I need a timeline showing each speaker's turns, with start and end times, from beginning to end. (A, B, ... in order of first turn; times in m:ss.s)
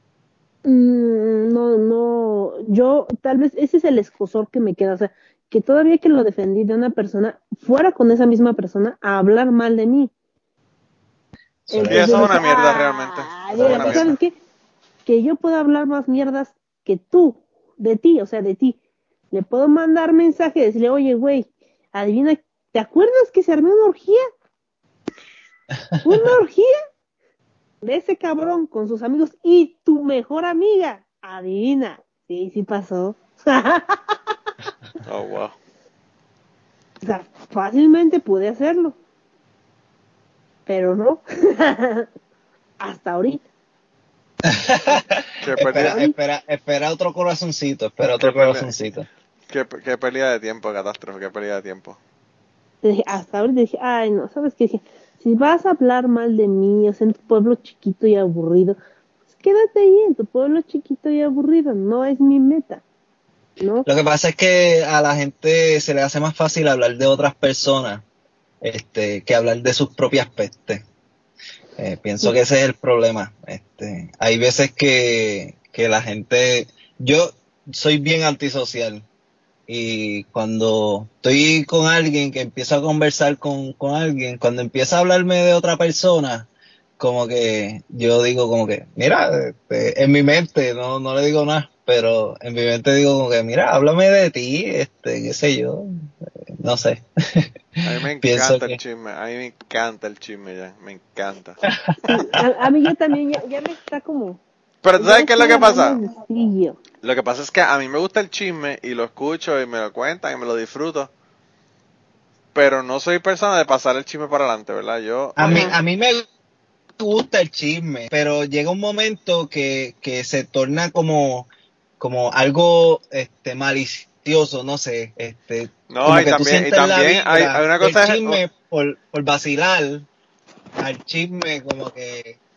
0:00.6-0:10.1 A
0:11.7-0:12.4 B
0:11.7-0:14.4 A
0:11.9-0:14.1 C
0:13.5-0:14.1 B
0:15.0-0:18.8 A
0:19.3-0:24.2 A
0:26.0-0:26.7 A
0:27.8-0:34.2 A
0:35.0-0:35.6 C
0:37.0-0:39.0 A
0:40.7-0:42.1 A
0:42.8-0:43.4 A
0:44.4-0:49.1 B
0:45.4-0:46.0 C
0:45.7-0:46.1 A
0:48.1-0:48.7 C
0:49.5-0:52.0 C
0:52.8-0:58.8 A
0:59.3-1:02.8 A
1:03.6-1:03.9 A
1:03.8-1:08.0 B
1:08.6-1:10.8 B
1:11.8-1:19.0 B
1:19.7-1:35.9 B
1:36.6-1:38.8 B
1:37.8-1:41.6 C
1:41.7-1:42.4 B
1:42.1-1:44.4 A
1:44.8-1:46.0 C
1:45.0-1:46.8 A
1:47.0-1:51.1 C
1:52.5-1:55.7 C
1:55.4-1:56.2 B
1:55.4-1:55.8 A
1:57.0-2:01.5 B
2:02.0-2:10.1 B
2:05.9-2:08.4 C
2:10.8-2:12.4 B